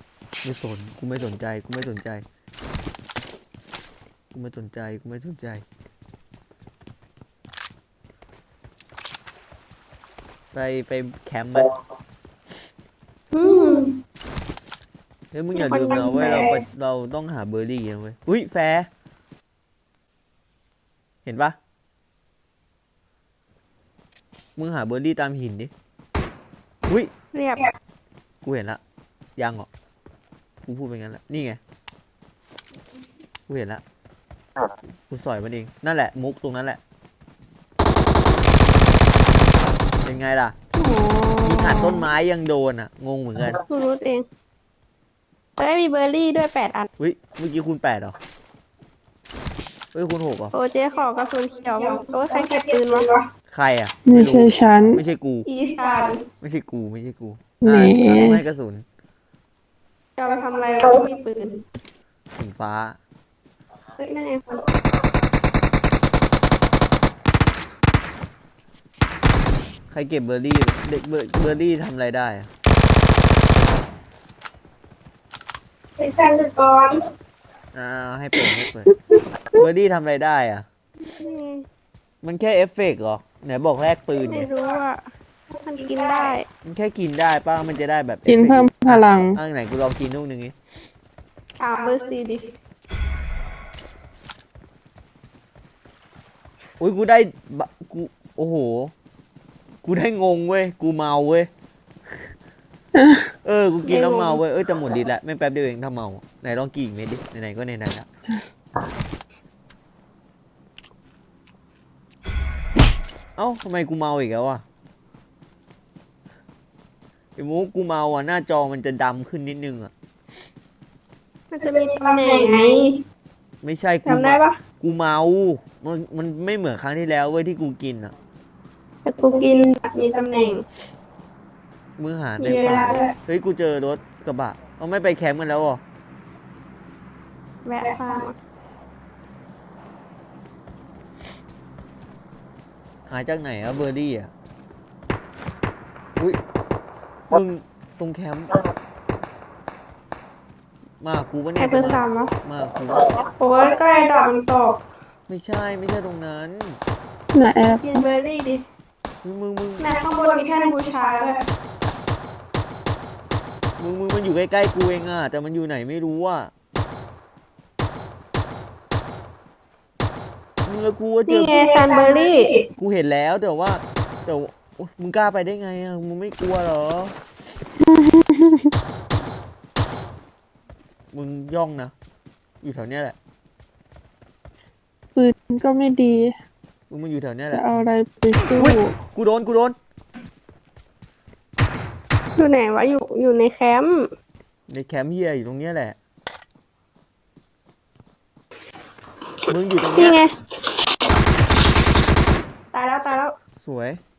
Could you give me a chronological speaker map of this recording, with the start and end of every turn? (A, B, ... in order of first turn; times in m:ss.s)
0:00.4-0:02.2 A
0:04.3-0:05.6 A
0:10.5-0:11.7 A
0:13.3-0:13.9 B
0:15.3-0:18.9 A
0:15.5-0:16.6 B
0:21.2-0:21.6 A
0:24.6-0:25.7 A
0:27.3-0:27.7 B
0:28.4-0:28.8 A
0:29.4-0:29.7 A
0:30.6-0:31.6 A
0:33.5-0:33.8 A
0:35.1-0:36.8 A
0:40.0-0:43.6 A
0:43.7-0:44.2 B
0:45.6-0:46.9 B
0:47.0-0:48.1 A
0:49.9-0:50.5 A
0:50.5-0:53.1 B
0:53.5-0:55.5 A
0:54.0-0:55.0 C
0:55.5-0:56.2 B
0:56.4-0:58.8 A
0:57.6-0:58.4 C
1:00.2-1:01.6 B
1:02.4-1:03.0 A
1:04.0-1:04.6 B
1:09.9-1:12.5 A
1:16.0-1:16.9 B
1:17.7-1:18.9 A
1:19.5-1:20.6 A
1:21.1-1:21.6 B
1:22.2-1:24.5 A
1:24.3-1:25.0 B
1:25.6-1:26.4 B
1:26.6-1:30.5 A
1:28.3-1:29.4 C
1:31.6-1:32.5 B
1:36.8-1:38.9 A
1:39.8-1:41.5 A
1:43.4-1:48.1 A
1:43.8-1:44.4 B
1:53.4-1:54.6 A
1:57.4-1:59.9 A
2:01.5-2:02.9 B
2:03.6-2:08.1 A
2:04.0-2:04.6 B
2:09.0-2:10.6 B
2:12.0-2:15.8 A
2:12.4-2:13.1 B
2:17.6-2:18.3 B
2:23.1-2:24.3 A
2:27.3-2:28.5 A
2:31.0-2:33.1 A
2:31.6-2:32.3 B
2:33.4-2:34.8 B
2:35.3-2:36.8 A
2:37.3-2:37.8 C
2:37.8-2:38.6 B
2:39.2-2:39.9 A
2:39.8-2:41.4 B
2:43.8-2:46.5 A
2:50.6-2:51.6 A
2:51.3-2:52.6 B
2:52.8-2:57.2 A
2:57.9-2:58.7 C
3:01.1-3:01.9 A
3:02.6-3:03.2 A
3:05.2-3:06.3 C
3:06.9-3:07.8 A
3:07.5-3:09.0 C
3:08.5-3:09.8 A
3:12.4-3:14.1 B
3:14.7-3:16.0 A
3:19.5-3:20.2 A
3:19.9-3:20.3 B
3:22.7-3:23.3 B
3:23.6-3:24.0 A